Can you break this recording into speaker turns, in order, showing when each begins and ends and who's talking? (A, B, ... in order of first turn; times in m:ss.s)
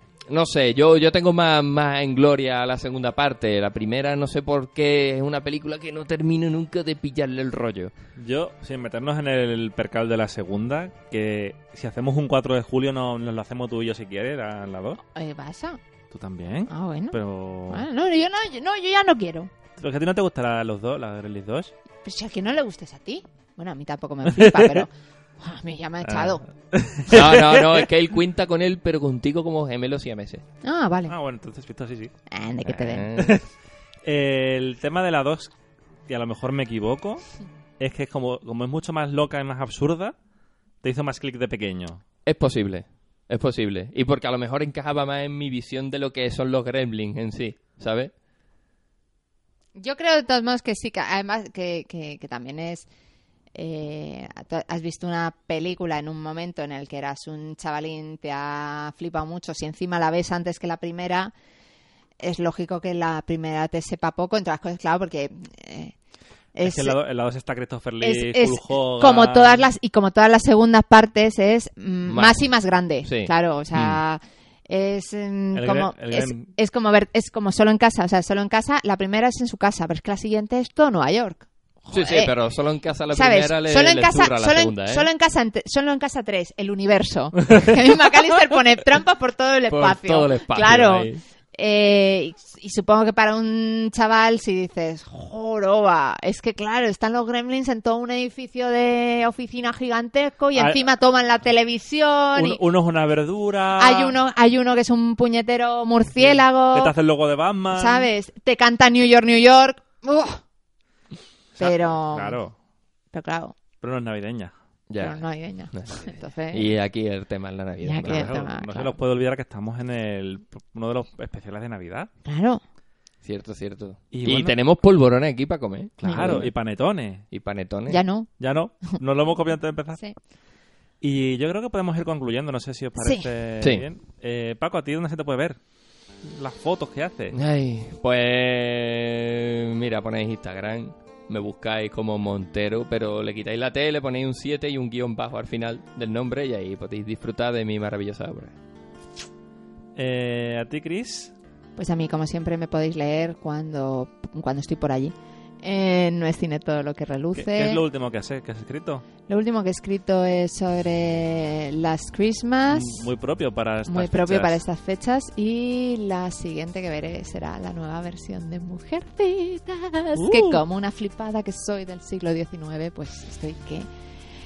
0:00.3-0:07.9 A
0:08.2-0:15.0 B
0:15.0-0:15.8 C
0:16.1-0:17.8 B
0:16.7-0:17.2 C
0:17.7-0:19.5 C
0:19.8-0:21.7 B
0:22.0-0:26.4 C
0:24.3-0:24.8 B
0:26.0-0:27.8 B
0:27.1-0:30.4 A
0:30.6-0:31.1 C
0:31.1-0:32.1 B
0:32.3-0:33.1 C
0:32.6-0:33.4 A
0:33.1-0:33.4 B
0:34.0-0:35.5 B
0:36.1-0:37.2 B
0:37.8-0:40.1 B
0:40.8-0:42.0 B
0:42.2-0:48.1 A
0:49.8-0:52.9 C
0:53.5-1:01.3 C
1:02.2-1:05.9 C
1:06.5-1:07.0 C
1:06.6-1:09.7 B
1:08.0-1:22.3 C
1:12.0-1:12.4 A
1:13.0-1:14.0 A
1:15.5-1:16.5 B
1:21.9-1:25.1 A
1:23.1-1:42.6 C
1:29.7-1:31.2 A
1:40.6-1:40.8 B
1:42.3-1:44.2 B
1:43.8-1:46.9 C
1:46.2-1:48.1 B
1:47.7-1:50.4 C
1:51.6-1:52.5 B
1:51.6-1:52.4 C
1:53.1-1:53.6 C
1:53.8-1:54.5 B
1:54.9-1:58.4 A
1:55.0-1:56.7 C
1:57.8-1:58.9 C
1:58.0-2:02.1 B
2:02.2-2:02.6 C
2:03.2-2:06.5 A
2:04.1-2:04.6 B
2:06.0-2:06.4 C
2:06.0-2:07.2 B
2:07.3-2:08.0 A
2:07.9-2:08.3 C
2:08.4-2:10.0 B
2:11.0-2:15.6 B
2:13.0-2:13.2 C
2:16.2-2:17.4 B
2:17.3-2:28.5 A
2:30.0-2:31.3 B
2:31.8-2:37.8 C
2:37.3-2:39.0 B
2:39.3-2:43.1 C
2:42.7-2:44.6 B
2:43.9-2:53.9 C
2:50.2-2:50.6 B